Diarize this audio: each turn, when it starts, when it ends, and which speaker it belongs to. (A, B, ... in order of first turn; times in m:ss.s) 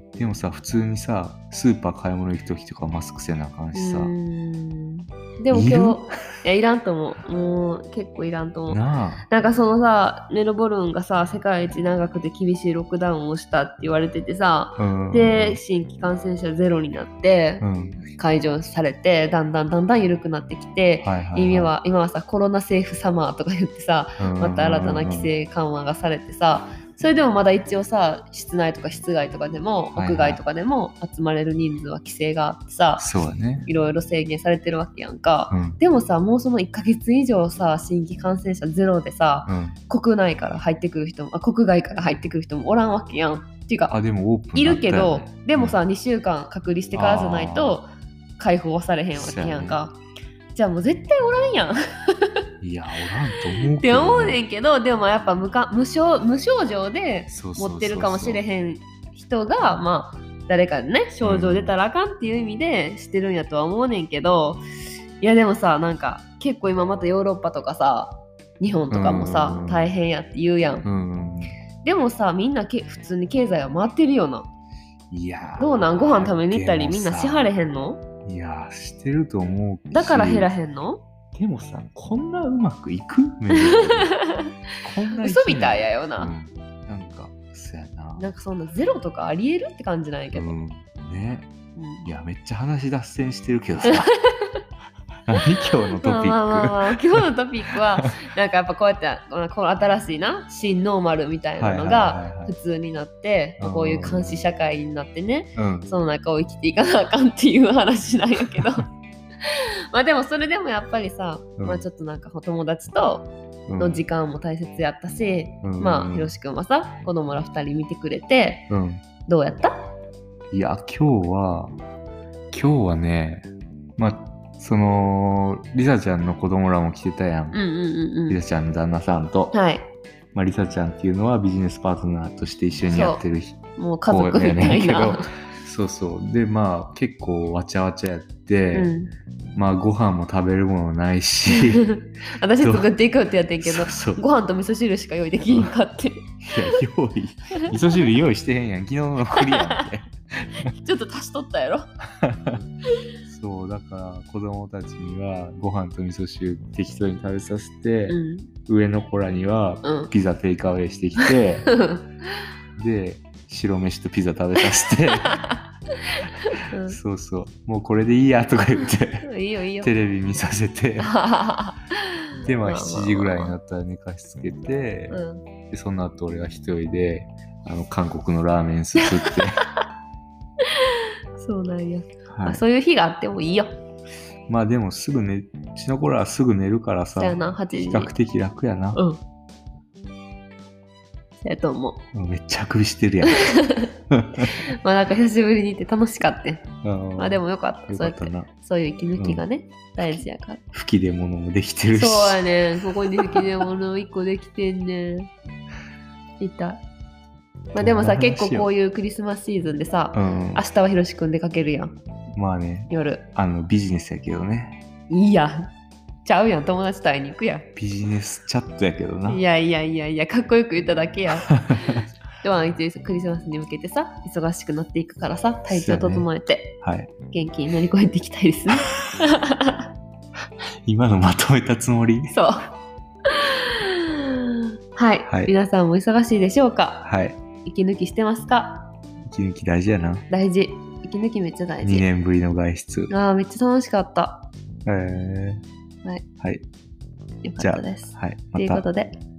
0:00.2-0:04.1 A
0:03.7-0:44.0 B
0:05.5-0:06.1 A
0:08.7-0:09.3 A
0:14.8-0:15.6 A
0:17.6-0:18.0 A
0:21.0-0:21.7 A
0:24.2-0:25.3 A
0:30.0-0:30.4 A
0:33.0-0:33.7 A
0:35.5-0:35.8 A
0:39.5-0:39.8 A
0:43.9-0:45.8 A
0:44.6-0:50.0 B
0:46.9-0:47.8 A
0:49.2-0:49.8 A
0:50.5-0:52.3 B
0:52.6-0:54.4 A
0:53.4-1:04.6 B
0:57.3-0:58.4 A
1:01.2-1:01.7 A
1:05.2-1:10.9 B
1:08.9-1:09.9 A
1:10.8-1:11.5 A
1:11.8-1:14.5 B
1:15.1-1:17.5 A
1:15.6-1:18.0 B
1:18.2-1:20.5 A
1:19.9-1:21.0 B
1:21.3-1:24.2 A
1:23.6-1:24.5 B
1:24.8-1:28.3 A
1:25.2-1:26.3 B
1:28.2-1:30.5 B
1:30.3-1:31.5 A
1:31.8-1:32.1 B
1:32.0-1:34.1 A
1:33.9-1:34.2 B
1:35.3-1:37.2 A
1:35.9-1:48.9 B
1:41.6-1:42.5 A
1:43.6-1:44.4 A
1:45.6-1:45.9 A
1:49.5-1:58.7 B
1:51.6-1:51.8 A
1:53.7-1:54.0 A
1:55.6-1:56.3 A
1:58.7-1:59.0 A
1:59.2-1:59.8 B
2:00.5-2:01.8 A
2:02.5-2:07.6 A
2:07.5-2:08.4 B
2:08.3-2:09.6 A
2:09.5-2:09.9 B
2:10.3-2:18.9 A
2:12.9-2:13.2 B
2:13.8-2:15.3 B
2:18.7-2:19.1 B
2:19.6-2:21.9 A
2:21.5-2:26.8 B
2:22.6-2:22.9 A
2:23.6-2:24.2 A
2:26.5-2:30.7 A
2:29.3-2:29.8 B
2:30.8-2:31.9 B
2:32.2-2:32.6 A
2:33.2-2:41.7 A
2:38.1-2:38.5 B
2:39.8-2:40.1 B
2:41.2-2:42.1 B
2:42.8-2:45.4 A
2:46.2-2:47.0 B
2:46.9-2:49.3 A
2:49.2-2:49.9 B
2:49.8-2:51.1 A
2:51.0-2:53.5 B
2:52.4-2:55.2 A
2:55.1-2:55.4 B
2:55.7-2:59.6 A
2:59.0-2:59.6 B
3:00.7-3:03.7 B
3:02.3-3:02.6 A
3:04.5-3:09.0 A
3:07.2-3:08.1 B
3:08.9-3:09.2 B
3:11.4-3:12.0 B
3:12.1-3:13.5 A
3:13.3-3:20.6 B
3:14.1-3:14.5 A
3:16.8-3:18.5 A
3:19.2-3:19.4 A
3:20.7-3:23.7 A
3:21.9-3:25.3 B
3:26.4-3:26.8 B
3:27.7-3:31.9 B
3:27.8-3:28.7 A
3:30.1-3:30.6 A
3:32.4-3:34.8 A
3:32.9-3:33.3 B
3:35.1-3:35.7 B
3:36.2-3:37.7 B
3:37.8-3:39.4 A
3:39.3-3:46.8 B
3:41.4-3:42.0 A
3:45.7-3:46.3 A
3:46.8-3:47.1 A
3:47.3-3:49.8 B
3:50.9-3:52.4 A
3:52.3-3:52.7 B
3:53.3-3:58.9 B
3:55.3-3:55.5 A
3:57.0-3:57.4 A
3:59.2-4:00.3 A
4:00.3-4:02.0 B
4:01.8-4:03.1 A
4:03.1-4:04.5 B
4:04.9-4:05.6 A
4:06.4-4:06.7 A
4:07.4-4:09.2 B
4:07.6-4:08.8 A